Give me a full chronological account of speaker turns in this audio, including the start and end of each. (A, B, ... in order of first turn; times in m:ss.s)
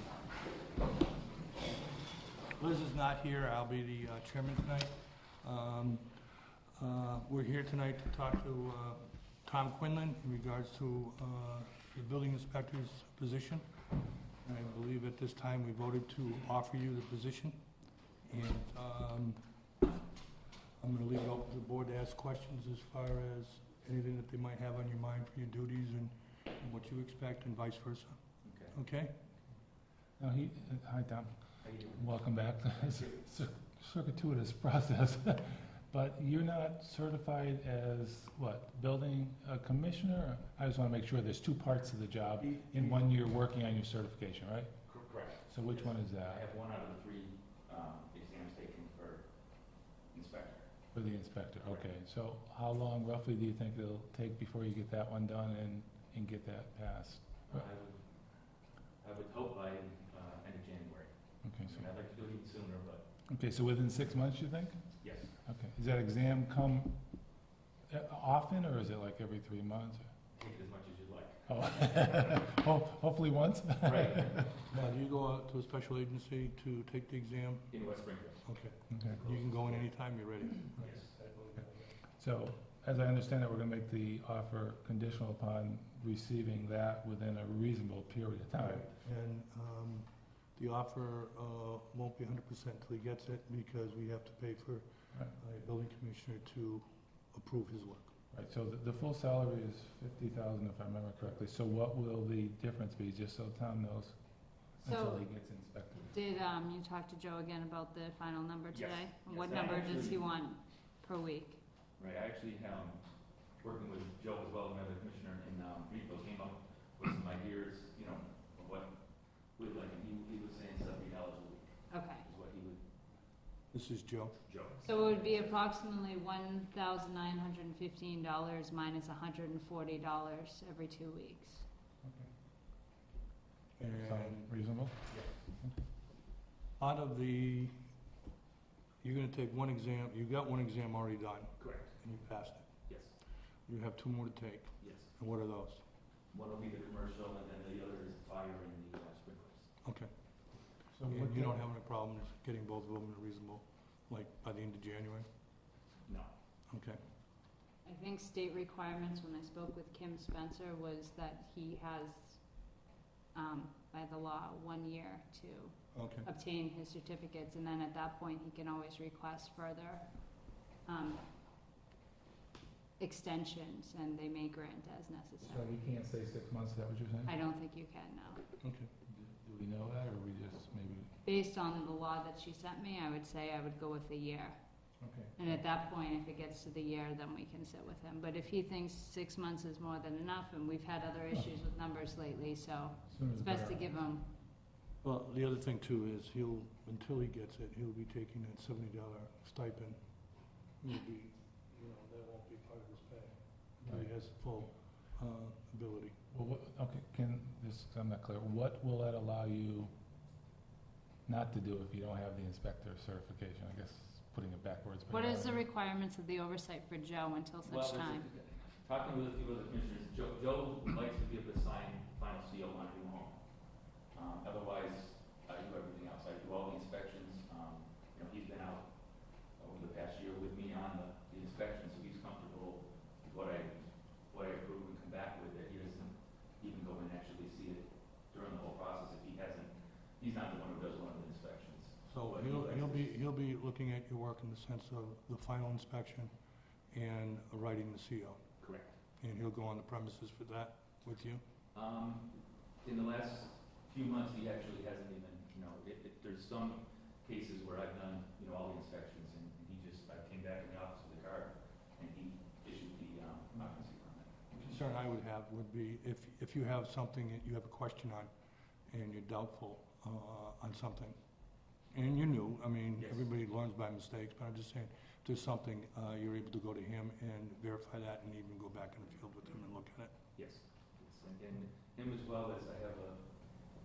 0:02.6-0:06.2 A
0:06.8-0:13.6 A
0:14.4-0:17.6 A
0:18.3-0:19.4 A
0:20.8-0:28.2 A
0:28.4-0:28.8 B
0:28.7-0:29.2 A
0:30.2-0:31.3 C
0:31.6-0:32.1 B
0:31.9-0:44.7 C
0:32.7-0:33.2 B
0:42.6-0:43.0 A
0:44.9-0:49.2 B
0:45.5-0:46.4 C
0:50.1-0:50.7 B
0:50.9-0:57.6 C
0:51.6-0:51.9 B
0:57.5-0:58.0 B
0:59.0-1:01.1 B
1:01.4-1:01.9 C
1:01.6-1:03.0 B
1:03.3-1:04.8 C
1:05.0-1:05.3 B
1:05.4-1:07.0 C
1:07.9-1:10.1 C
1:10.3-1:12.4 B
1:11.5-1:14.6 C
1:13.8-1:14.5 B
1:14.7-1:17.7 A
1:17.7-1:18.4 B
1:18.5-1:22.0 A
1:18.9-1:19.2 C
1:19.1-1:19.9 B
1:20.8-1:21.1 B
1:22.2-1:28.9 C
1:28.6-1:38.1 A
1:38.3-1:44.2 C
1:44.8-1:46.1 C
1:44.8-1:45.3 D
1:46.1-1:51.6 D
1:48.7-1:50.2 B
1:52.0-1:53.0 B
1:53.6-1:59.0 B
1:59.6-2:01.7 B
2:01.9-2:02.2 D
2:02.2-2:02.8 B
2:03.7-2:04.4 A
2:04.4-2:05.5 B
2:04.8-2:11.7 D
2:12.0-2:12.3 C
2:13.8-2:14.5 A
2:13.9-2:15.8 C
2:15.1-2:15.4 B
2:16.8-2:17.8 A
2:19.0-2:22.7 A
2:21.6-2:21.9 B
2:22.9-2:23.2 B
2:23.7-2:25.8 A
2:24.8-2:25.1 B
2:26.3-2:29.7 B
2:29.8-2:30.1 A
2:30.9-2:31.6 C
2:31.1-2:35.3 A
2:36.7-2:37.0 A
2:37.8-2:42.4 D
2:43.3-2:50.2 D
2:45.9-2:46.3 A
2:50.8-2:51.2 D
2:53.0-2:55.8 D
2:55.4-2:57.3 C
2:57.2-2:58.4 D
2:58.6-2:58.9 A
2:59.1-3:01.1 C
3:01.2-3:04.6 D
3:05.0-3:05.3 C
3:05.4-3:14.3 D
3:13.1-3:14.0 C
3:15.0-3:20.0 A
3:20.8-3:26.1 A
3:23.8-3:24.1 C
3:26.3-3:29.9 C
3:31.3-3:35.7 C
3:35.1-3:38.3 D
3:37.6-3:43.4 B
3:44.1-3:48.9 B
3:49.6-4:03.2 B
4:02.1-4:06.3 A
4:06.9-4:08.4 A
4:08.6-4:09.0 B
4:09.2-4:11.4 A
4:11.7-4:12.3 B
4:12.8-4:24.6 B
4:24.5-4:28.3 A
4:28.9-4:31.2 A
4:31.9-4:40.1 A
4:33.0-4:33.3 B
4:40.4-4:43.2 B